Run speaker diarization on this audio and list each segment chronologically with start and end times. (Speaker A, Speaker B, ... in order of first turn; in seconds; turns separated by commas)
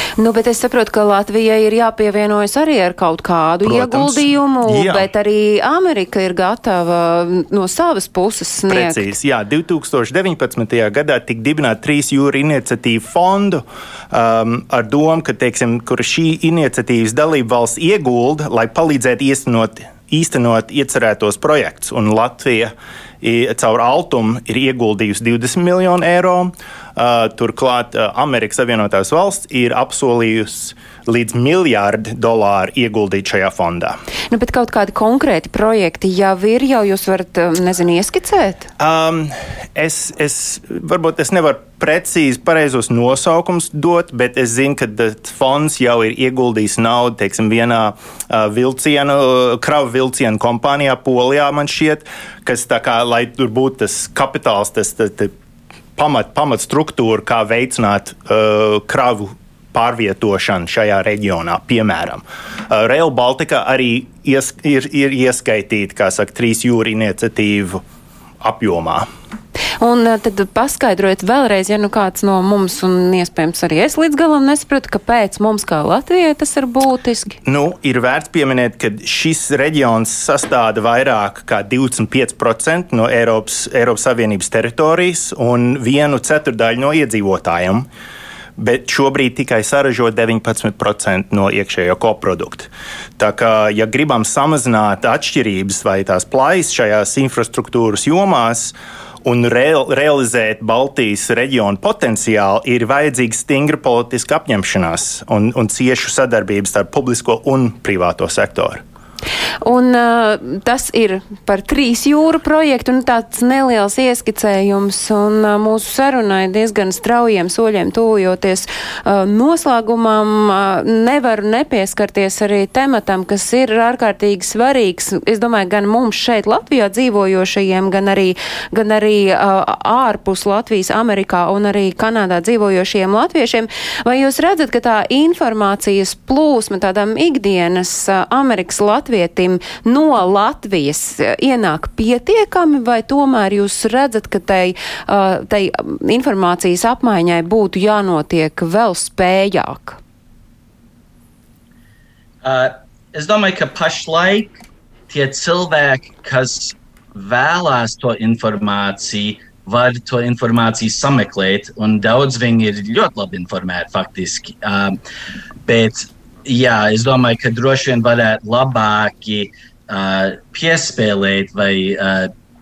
Speaker A: 0.2-9.1, Speaker B: 3.6-5.1, Speaker B: 8.7-34.0, Speaker A: 34.3-38.7, Speaker B: 38.8-55.3, Speaker B: 56.0-67.8, Speaker B: 68.4-69.1, Speaker A: 69.8-77.4, Speaker B: 77.5-87.9, Speaker B: 88.6-108.8, Speaker A: 109.6-150.0, Speaker C: 152.4-154.6, Speaker C: 155.1-165.0, Speaker C: 165.7-172.3